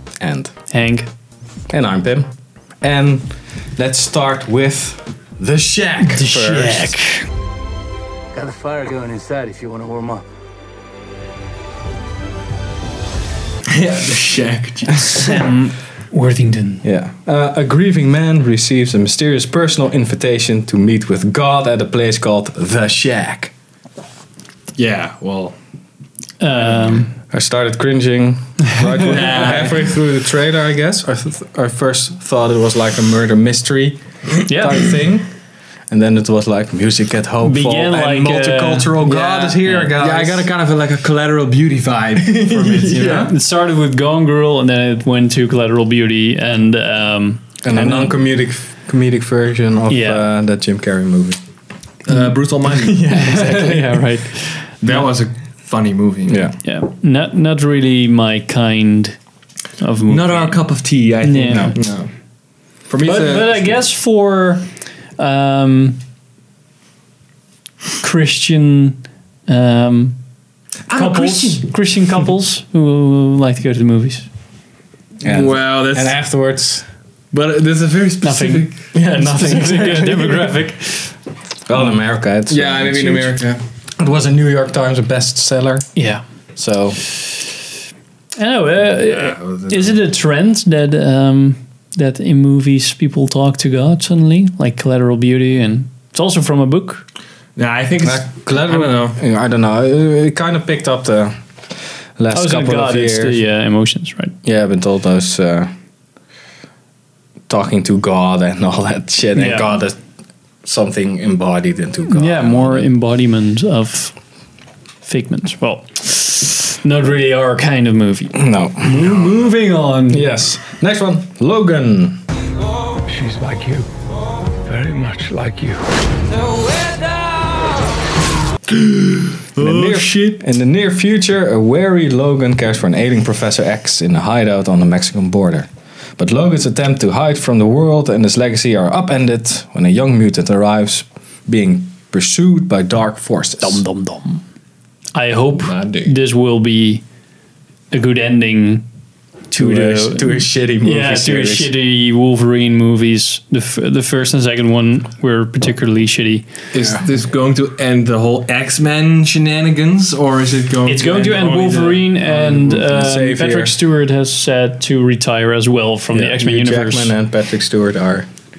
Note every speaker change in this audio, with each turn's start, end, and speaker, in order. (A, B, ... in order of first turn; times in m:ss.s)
0:00.2-0:00.5 A
0:00.7-0:01.1 B
0:01.7-0:07.0 A
0:06.0-0:07.2 B
0:08.3-0:10.2 C
0:13.7-0:15.4 D
0:15.1-0:16.8 B
0:16.8-0:23.5 A
0:24.8-0:25.6 D
0:26.4-0:27.1 B
0:27.3-0:35.3 A
0:29.0-0:30.0 D
0:34.5-0:34.8 B
0:35.9-0:40.5 A
0:37.4-0:38.9 B
0:39.0-0:43.3 D
0:42.3-0:43.3 A
0:43.3-0:48.2 B
0:47.6-0:51.4 A
0:49.9-0:50.3 B
0:52.1-0:53.1 D
0:52.8-0:54.2 A
0:53.1-0:55.0 B
0:54.8-0:56.5 D
0:56.3-0:56.6 A
0:56.6-0:59.2 B
0:59.8-1:00.6 B
1:00.1-1:02.1 D
1:01.2-1:01.8 B
1:02.9-1:03.8 D
1:03.0-1:06.0 B
1:08.0-1:10.2 B
1:10.9-1:11.7 D
1:10.9-1:14.3 B
1:15.2-1:16.9 A
1:15.2-1:16.3 D
1:17.3-1:18.9 D
1:18.2-1:21.1 B
1:19.0-1:20.5 A
1:21.7-1:23.4 A
1:22.5-1:23.6 D
1:24.0-1:25.9 A
1:26.0-1:26.2 B
1:26.6-1:27.0 A
1:28.4-1:37.0 B
1:29.1-1:30.0 D
1:37.6-1:39.2 D
1:38.0-1:41.4 A
1:42.2-1:43.4 A
1:42.3-1:44.4 B
1:44.4-1:45.7 A
1:47.5-1:50.0 A
1:49.4-1:49.8 B
1:50.6-1:52.9 A
1:52.1-1:54.2 B
1:55.0-2:00.2 B
1:58.4-1:59.4 A
2:00.1-2:02.2 A
2:03.1-2:03.9 C
2:04.6-2:05.9 C
2:08.7-2:10.4 D
2:09.6-2:23.8 A
2:23.6-2:24.4 B
2:25.2-2:27.0 B
2:25.6-2:26.2 D
2:27.9-2:28.8 B
2:29.5-2:36.5 B
2:29.6-2:31.7 A
2:36.7-2:42.0 D
2:40.9-2:47.1 B
2:42.2-2:43.8 A
2:46.1-2:48.3 A